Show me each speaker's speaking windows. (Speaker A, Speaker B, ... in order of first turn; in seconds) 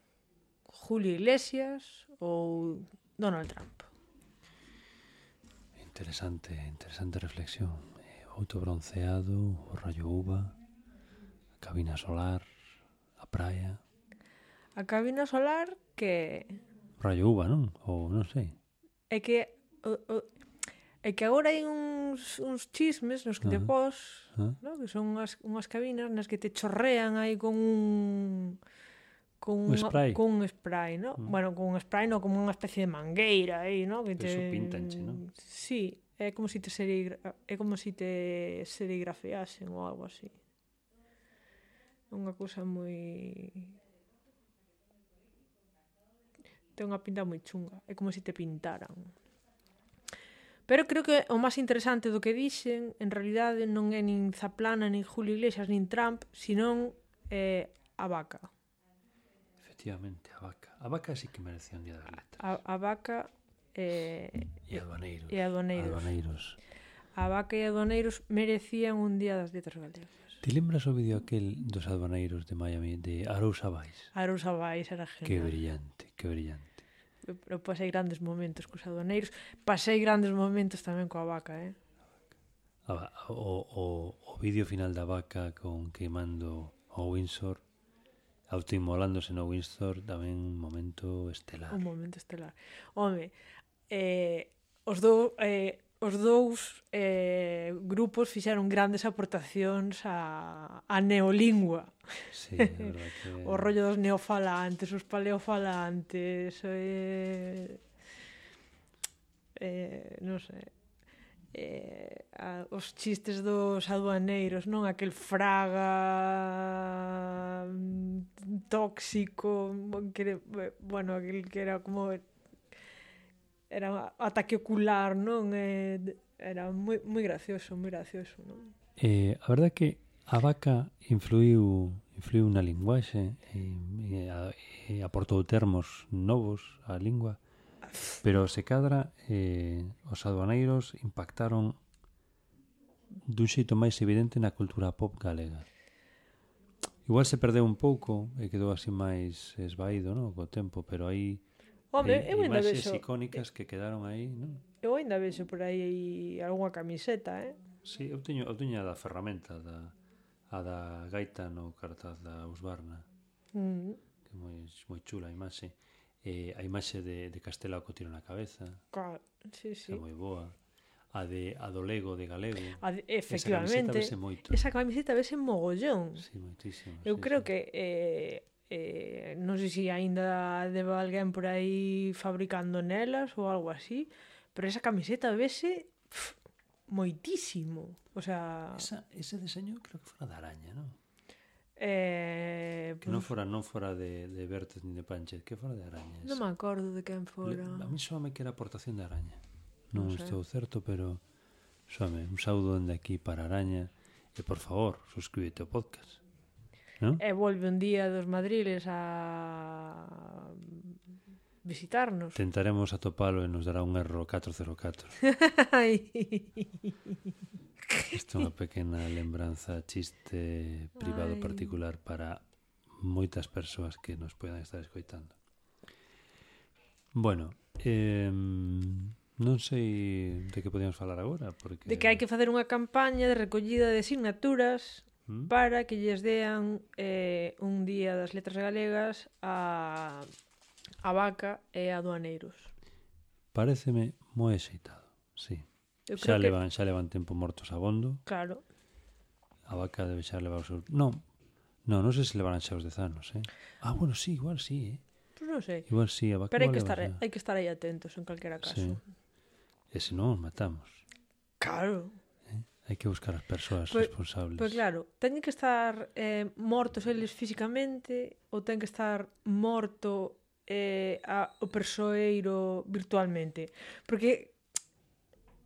Speaker A: 0.7-3.9, 14.8-16.6, 19.1-20.3, 21.0-28.6, 29.4-40.4, 42.1-43.7, 46.7-49.1, 50.7-58.5, 62.4-64.7, 65.3-66.1, 67.2-70.4, 74.1-75.5, 77.2-81.8, 91.7-93.3, 93.9-102.0, 102.6-107.8, 109.5-110.7, 111.5-122.2, 123.7-128.7, 137.9-138.2, 151.9-153.0, 154.8-157.6, 163.5-164.0, 168.9-170.0, 172.8-176.3, 177.0-186.3, 186.9-188.8, 191.8-193.3, 196.2-197.9, 199.9-200.4, 207.2-210.9, 211.6-212.4, 215.2-216.9, 217.9-218.2, 221.0-221.8, 231.8-240.3, 241.0-242.7, 246.1-246.6, 248.2-248.6, 255.4-255.9, 256.5-259.0, 261.6-262.2, 263.9-274.6
Speaker B: 5.8-10.6, 11.6-12.5, 13.2-13.8, 17.0-18.6, 23.4-23.7, 29.6-30.2, 34.1-35.2, 59.6-62.5, 64.7-66.6, 70.4-74.1, 75.2-76.7, 82.8-87.6, 88.5-91.8, 102.3-103.7, 129.0-137.4, 138.2-141.8, 143.2-145.6, 147.0-151.4, 152.0-154.6, 157.8-159.9, 160.5-163.1, 164.2-168.8, 169.8-170.6, 171.1-174.6, 176.2-177.5, 188.7-191.0, 193.0-196.4, 197.4-201.2, 201.9-206.2, 212.3-215.2, 218.1-225.3, 227.1-232.2, 235.3-235.5, 243.5-248.2, 249.7-251.3, 251.8-255.0, 255.8-257.2, 258.6-259.0, 259.9-261.0, 262.5-264.8